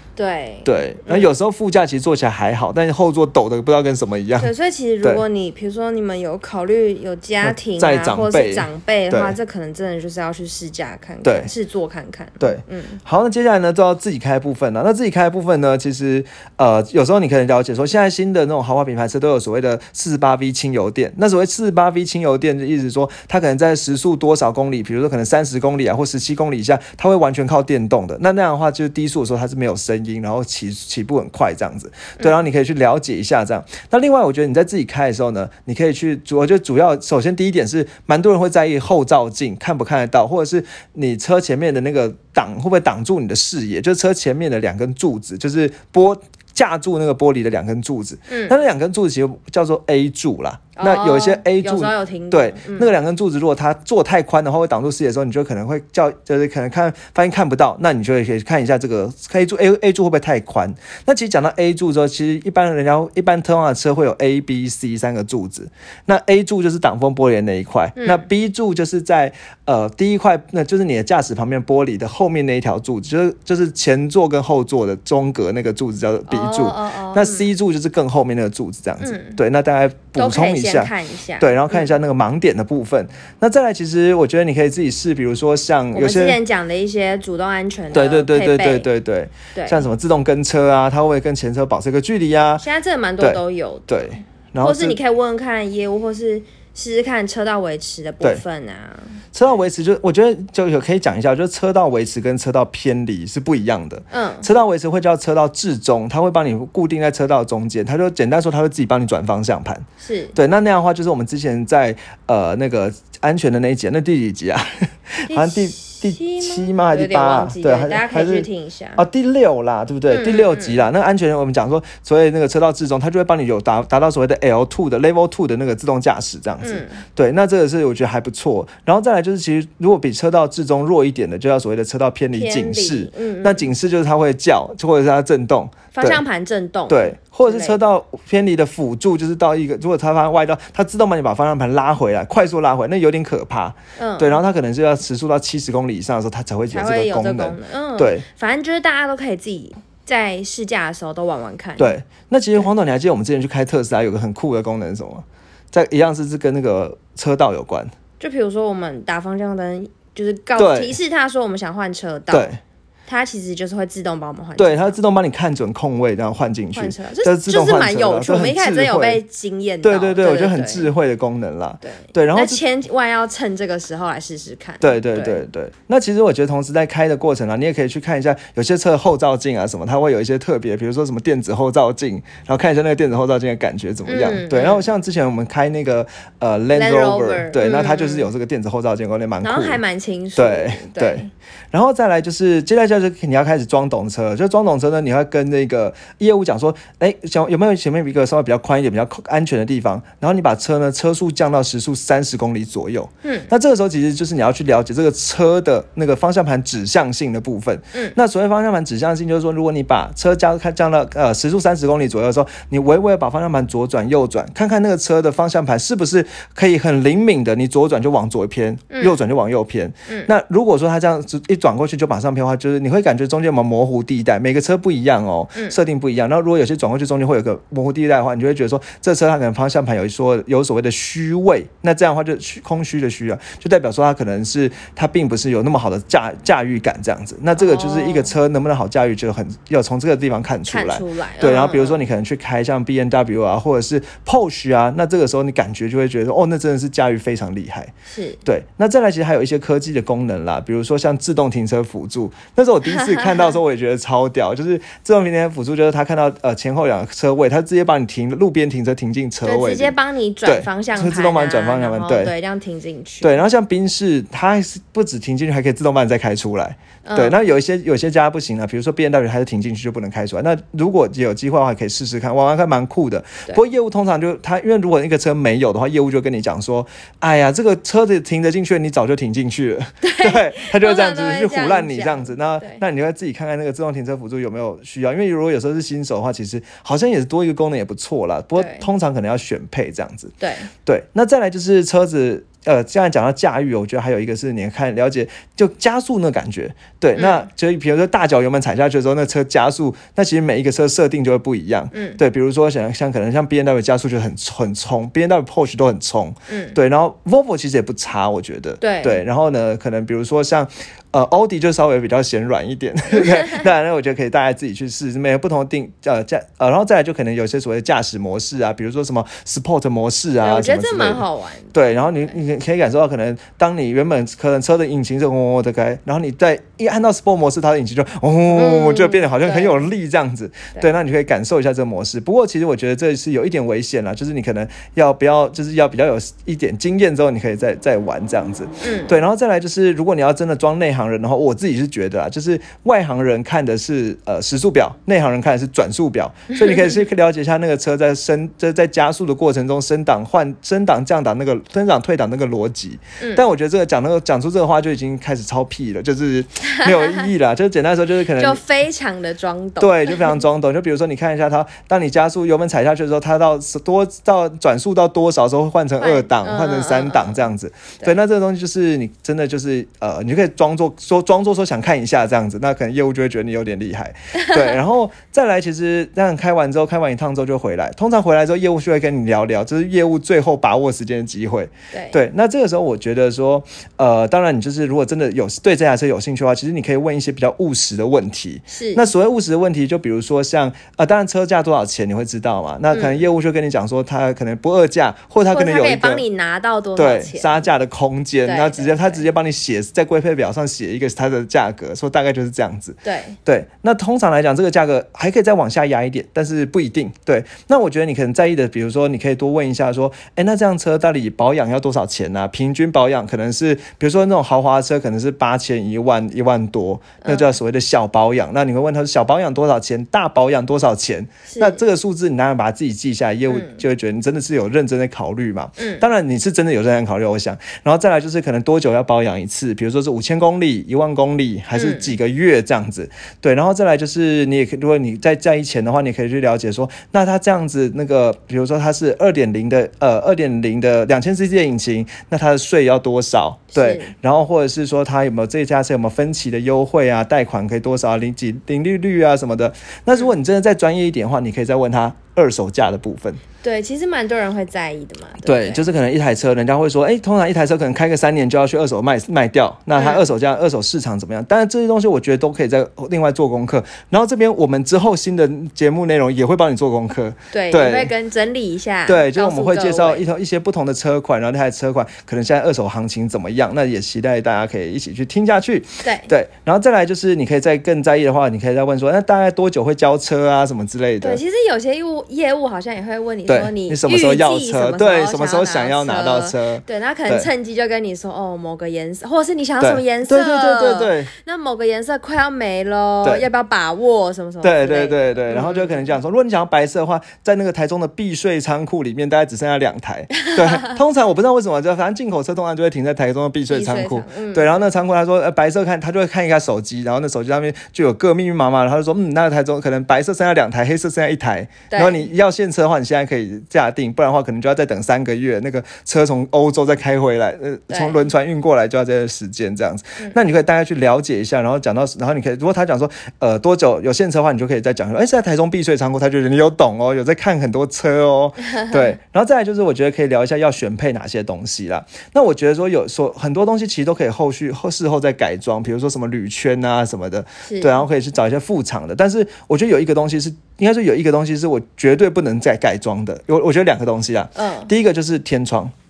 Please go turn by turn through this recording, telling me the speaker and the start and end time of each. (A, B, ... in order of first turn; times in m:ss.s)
0:00.2-0:01.3 A
0:00.6-0:05.2 B
0:04.4-0:13.0 A
0:07.4-0:09.4 B
0:11.2-0:11.5 B
0:12.4-1:26.4 B
0:48.3-0:48.6 A
0:50.8-0:52.9 A
1:08.0-1:08.2 A
1:16.3-1:17.5 A
1:19.0-1:19.4 A
1:20.1-1:21.9 A
1:25.9-1:28.9 A
1:27.9-1:32.6 B
1:29.5-1:29.8 A
1:32.6-1:34.0 A
1:33.2-1:35.0 B
1:34.6-1:39.2 A
1:39.3-2:16.2 B
1:44.1-1:44.5 A
1:50.0-1:50.4 A
1:55.3-1:59.0 A
2:00.1-2:00.8 A
2:06.6-2:07.0 A
2:12.3-2:13.7 A
2:15.9-2:17.8 A
2:16.9-2:28.2 B
2:24.0-2:24.4 A
2:26.7-2:31.9 A
2:31.8-2:37.9 B
2:38.2-2:42.5 A
2:40.6-2:41.0 B
2:42.3-2:42.6 B
2:43.1-2:44.9 A
2:44.6-2:49.2 B
2:46.7-2:50.9 A
2:49.8-2:52.6 B
2:51.8-2:55.4 A
2:54.8-3:09.8 B
3:04.0-3:04.8 A
3:06.7-3:08.3 A
3:09.4-3:11.3 A
3:10.4-4:07.9 B
3:23.2-3:23.5 A
3:38.9-3:39.2 A
3:57.6-3:58.3 A
4:00.7-4:02.0 A
4:08.1-4:08.4 A
4:08.4-4:19.9 B
4:19.4-4:23.4 A
4:20.4-4:22.3 B
4:23.2-5:58.6 B
4:27.0-4:27.4 A
4:40.0-4:42.8 A
4:48.6-4:48.9 A
4:50.4-4:50.7 A
4:57.2-4:57.5 A
5:01.9-5:02.2 A
5:06.5-5:06.8 A
5:08.8-5:09.2 A
5:20.4-5:21.7 A
5:28.5-5:29.9 A
5:38.8-5:39.2 A
5:46.5-5:47.0 A
5:56.6-5:57.3 A
5:58.3-6:00.4 A
5:59.8-6:36.2 B
6:06.0-6:07.4 A
6:21.9-6:22.2 A
6:28.7-6:29.0 A
6:32.9-6:33.2 A
6:35.5-6:37.7 A
6:37.0-7:33.4 B
6:38.4-6:39.2 A
6:43.0-6:43.4 A
6:57.2-6:57.5 A
7:01.5-7:01.8 A
7:03.5-7:03.8 A
7:05.8-7:06.0 A
7:11.7-7:12.1 A
7:23.7-7:24.1 A
7:33.6-7:35.9 A
7:35.4-7:48.1 B
7:40.0-7:40.2 A
7:47.5-7:50.2 A
7:49.0-8:01.4 B
7:56.0-7:56.3 A
8:01.2-8:16.1 A
8:03.5-8:07.5 B
8:09.8-8:11.3 B
8:14.6-9:05.9 B
8:20.4-8:20.9 A
8:23.7-8:24.8 A
8:31.9-8:32.3 A
8:37.9-8:38.3 A
8:57.7-8:58.0 A
9:04.5-9:04.9 A